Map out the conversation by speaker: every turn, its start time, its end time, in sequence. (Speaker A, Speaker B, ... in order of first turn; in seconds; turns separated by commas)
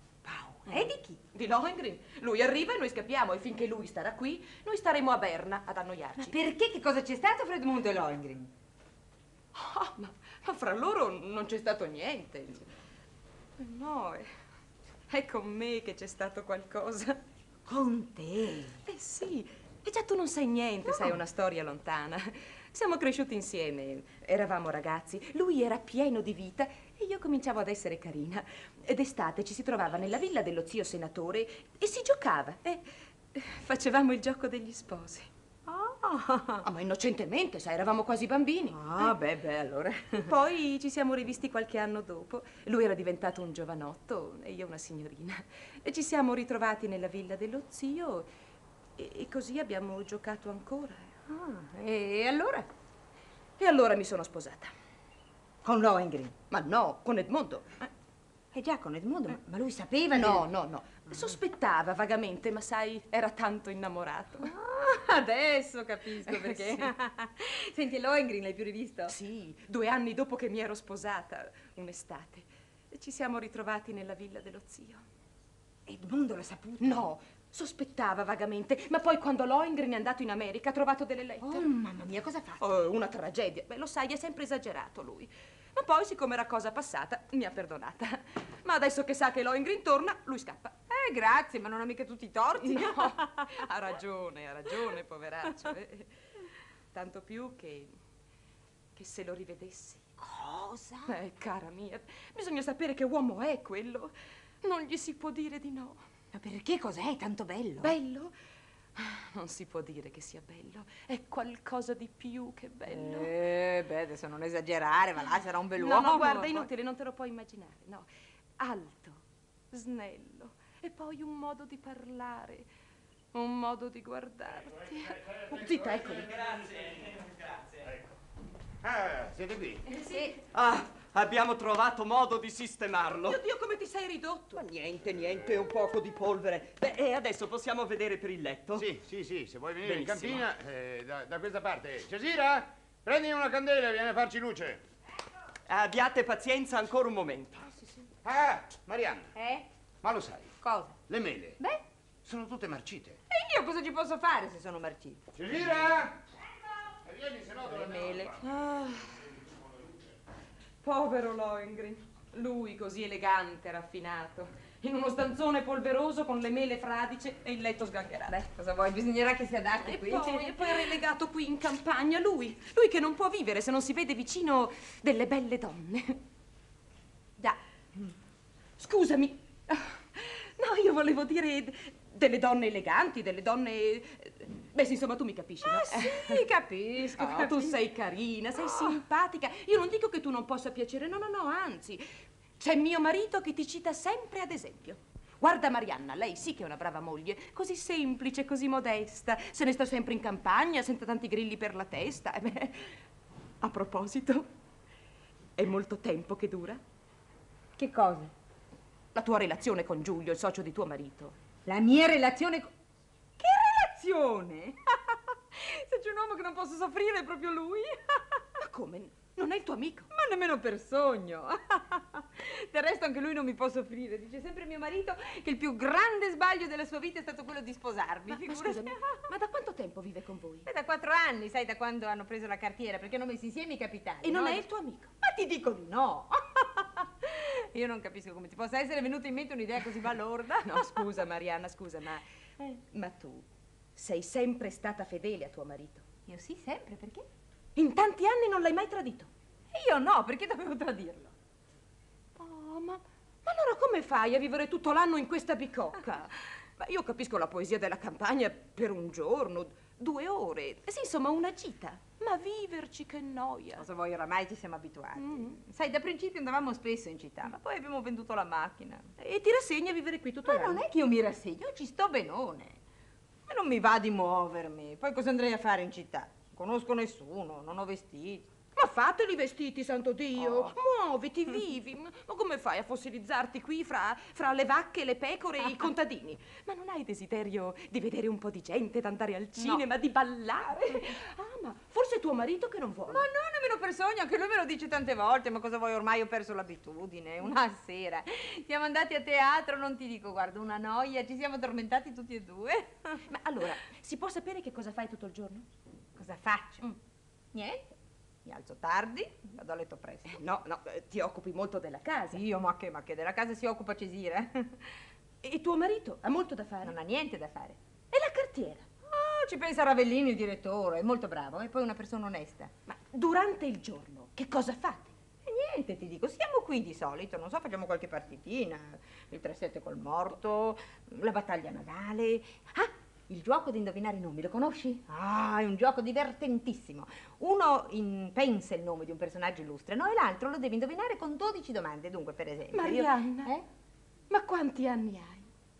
Speaker A: 0.2-1.2, Speaker B: 0.7-6.3, Speaker A: 6.2-8.5, Speaker B: 9.6-12.7, Speaker B: 13.6-14.3, Speaker B: 15.1-17.2, Speaker A: 17.7-18.8, Speaker B: 18.9-35.3, Speaker A: 35.7-36.6, Speaker B: 36.6-39.1, Speaker A: 38.7-40.3, Speaker B: 40.1-48.3, Speaker B: 49.0-51.1, Speaker A: 51.3-52.7, Speaker B: 53.6-54.7, Speaker A: 55.6-56.4, Speaker B: 56.5-57.9, Speaker A: 58.5-60.5, Speaker B: 60.1-64.5, Speaker A: 64.4-69.1, Speaker B: 66.2-66.9, Speaker B: 69.1-75.0, Speaker A: 75.9-77.1, Speaker B: 76.8-81.7, Speaker A: 81.4-82.7, Speaker B: 82.6-90.8, Speaker A: 90.9-93.6, Speaker B: 92.6-96.1, Speaker B: 96.9-97.9, Speaker B: 99.0-100.0, Speaker A: 100.2-101.2, Speaker B: 101.1-106.0, Speaker A: 106.3-108.0, Speaker B: 107.8-108.3, Speaker B: 109.0-113.3, Speaker A: 112.9-116.7, Speaker B: 115.8-118.1, Speaker B: 118.6-119.2, Speaker B: 119.7-122.7, Speaker B: 123.3-126.3, Speaker C: 125.2-126.5, Speaker D: 126.2-127.9, Speaker C: 128.8-129.8, Speaker B: 129.9-130.3, Speaker A: 130.1-130.3, Speaker D: 130.5-133.4, Speaker B: 133.2-134.6, Speaker D: 134.5-138.9, Speaker C: 138.8-144.8, Speaker D: 139.8-140.5, Speaker D: 145.7-147.7, Speaker C: 148.2-149.3, Speaker A: 149.3-149.7, Speaker C: 150.0-150.6, Speaker A: 150.6-151.0, Speaker C: 151.1-151.6, Speaker C: 152.2-153.2, Speaker A: 153.3-155.3, Speaker C: 155.3-156.2, Speaker C: 156.9-158.6, Speaker B: 157.8-159.2, Speaker A: 157.8-158.2, Speaker B: 160.8-168.5, Speaker A: 168.6-171.0, Speaker B: 169.8-176.2, Speaker A: 177.4-178.0, Speaker B: 178.8-186.4, Speaker A: 185.6-187.8, Speaker B: 187.1-192.1, Speaker A: 188.6-189.0, Speaker B: 192.6-203.0, Speaker B: 203.6-204.5, Speaker B: 205.6-206.8, Speaker A: 207.8-208.3, Speaker B: 209.1-211.4, Speaker A: 211.7-212.7, Speaker A: 213.4-218.4, Speaker B: 218.6-220.1, Speaker A: 220.1-229.2, Speaker B: 228.3-230.7, Speaker A: 230.7-234.7, Speaker B: 234.2-235.1, Speaker A: 235.2-241.1, Speaker B: 240.6-246.0, Speaker A: 246.3-247.2, Speaker B: 247.8-249.3, Speaker A: 249.7-251.3, Speaker B: 252.4-263.8, Speaker A: 263.8-269.1, Speaker B: 265.2-265.6, Speaker B: 269.2-270.8, Speaker A: 270.4-272.8, Speaker A: 273.5-278.5, Speaker B: 278.8-293.3, Speaker A: 280.4-280.7, Speaker A: 289.6-289.8, Speaker A: 293.1-303.2, Speaker B: 303.2-305.7, Speaker A: 306.2-306.9, Speaker A: 307.5-307.9, Speaker A: 308.4-310.4, Speaker B: 310.3-312.4, Speaker A: 312.3-314.9, Speaker B: 315.4-316.9, Speaker A: 316.8-317.8, Speaker B: 318.1-318.9, Speaker A: 319.1-322.7, Speaker B: 322.9-325.1, Speaker A: 325.4-343.6, Speaker B: 342.7-343.5, Speaker B: 344.3-345.5